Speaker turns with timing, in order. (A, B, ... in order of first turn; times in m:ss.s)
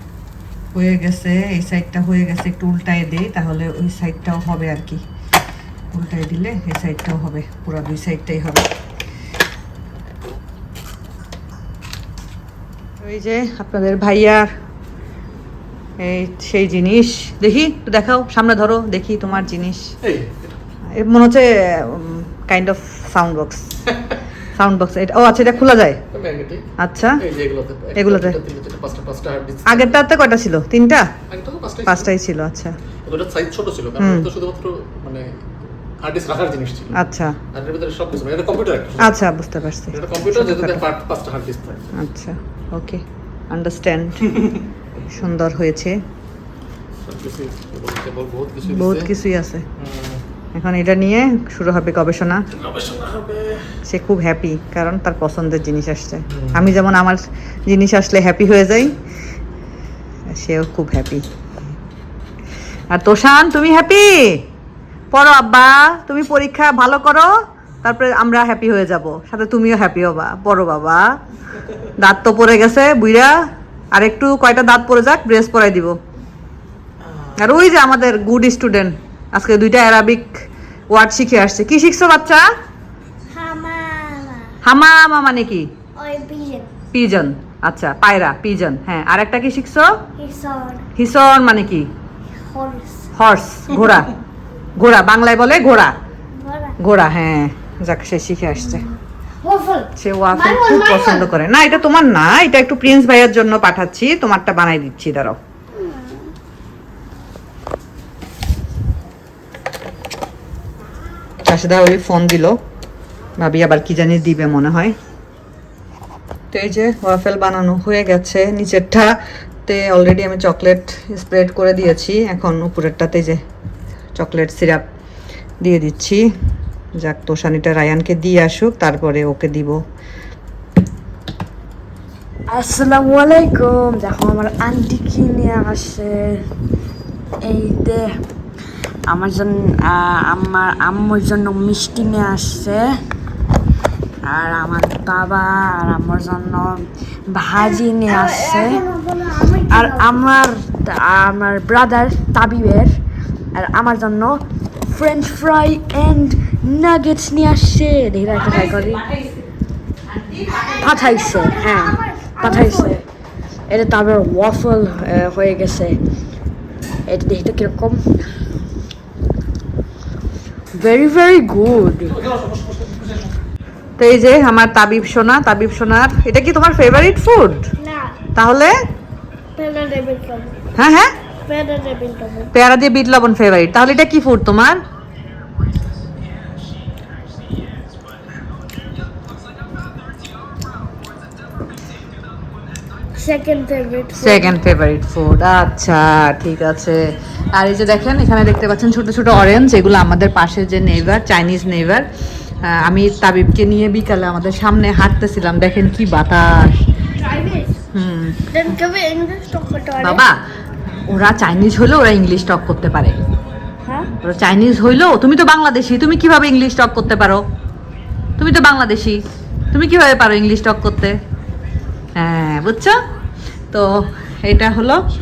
0:00.7-0:05.0 A
0:05.9-0:08.7 A
0:13.0-0:14.5 A
0:16.0-0:20.0 A
0:20.0-0:20.6 B
0:20.9-0:23.7 A
0:24.6-0:26.0 A
0:26.1-0:26.6 B
0:26.8-0:27.2 A
0:27.2-0:30.0 B
0:28.0-0:28.4 A
0:29.7-0:31.1 A
0:31.3-0:32.1 B
0:31.9-0:32.7 A
0:33.1-0:35.2 B
0:34.0-0:34.3 A
0:36.0-0:37.0 B
0:36.9-0:37.4 A
0:37.5-0:39.2 B
0:39.0-0:40.8 A
0:39.9-0:41.9 B
0:42.0-0:44.4 A
0:45.1-0:46.0 A
0:47.0-0:49.1 B
0:48.7-0:49.6 A
0:49.8-0:50.2 B
0:50.6-0:52.4 A
0:52.6-0:53.7 B
0:53.8-0:59.0 A
0:56.3-0:56.7 B
1:00.3-1:01.2 A
1:02.9-1:04.4 A
1:05.1-1:07.3 A
1:07.8-1:11.0 A
1:12.0-1:13.3 A
1:13.9-1:16.0 A
1:17.4-1:20.4 A
1:20.9-1:22.4 A
1:23.3-1:24.6 C
1:24.6-1:25.7 A
1:26.0-1:26.7 C
1:26.9-1:29.9 A
1:30.2-1:30.8 C
1:31.0-1:31.9 A
1:32.4-1:33.1 C
1:33.2-1:34.1 A
1:34.8-1:36.0 A
1:36.4-1:36.8 C
1:36.8-1:38.8 A
1:39.4-1:41.3 C
1:40.0-1:45.4 A
1:45.8-1:46.3 C
1:51.5-1:52.5 A
1:53.4-1:55.0 A
1:56.5-1:59.1 A
1:59.7-2:03.4 A
2:04.2-2:04.8 A
2:05.6-2:06.2 A
2:07.0-2:09.8 A
2:12.5-2:16.4 D
2:17.4-2:18.1 D
2:19.1-2:22.8 D
2:24.2-2:28.8 D
2:27.6-2:30.1 C
2:29.7-2:33.0 D
2:33.5-2:39.0 D
2:38.3-2:39.4 A
2:40.1-2:41.5 A
2:40.7-2:43.0 D
2:41.6-2:43.0 C
2:43.7-2:46.0 D
2:47.1-2:48.2 D
2:50.7-2:52.2 D
2:52.1-2:53.4 B
2:54.0-2:57.7 A
2:57.8-2:58.2 C
2:58.4-2:58.7 A
2:59.6-3:00.6 C
3:00.8-3:01.1 A
3:01.5-3:02.5 C
3:02.5-3:04.8 A
3:13.2-3:14.6 C
3:14.2-3:17.0 A
3:17.5-3:22.0 A
3:22.6-3:26.8 A
3:27.2-3:27.8 C
3:27.9-3:28.4 A
3:28.5-3:30.2 C
3:30.0-3:30.4 A
3:31.1-3:33.2 A
3:33.8-3:34.1 C
3:34.2-3:37.4 A
3:38.4-3:41.2 A
3:42.2-3:43.0 A
3:43.7-3:45.0 A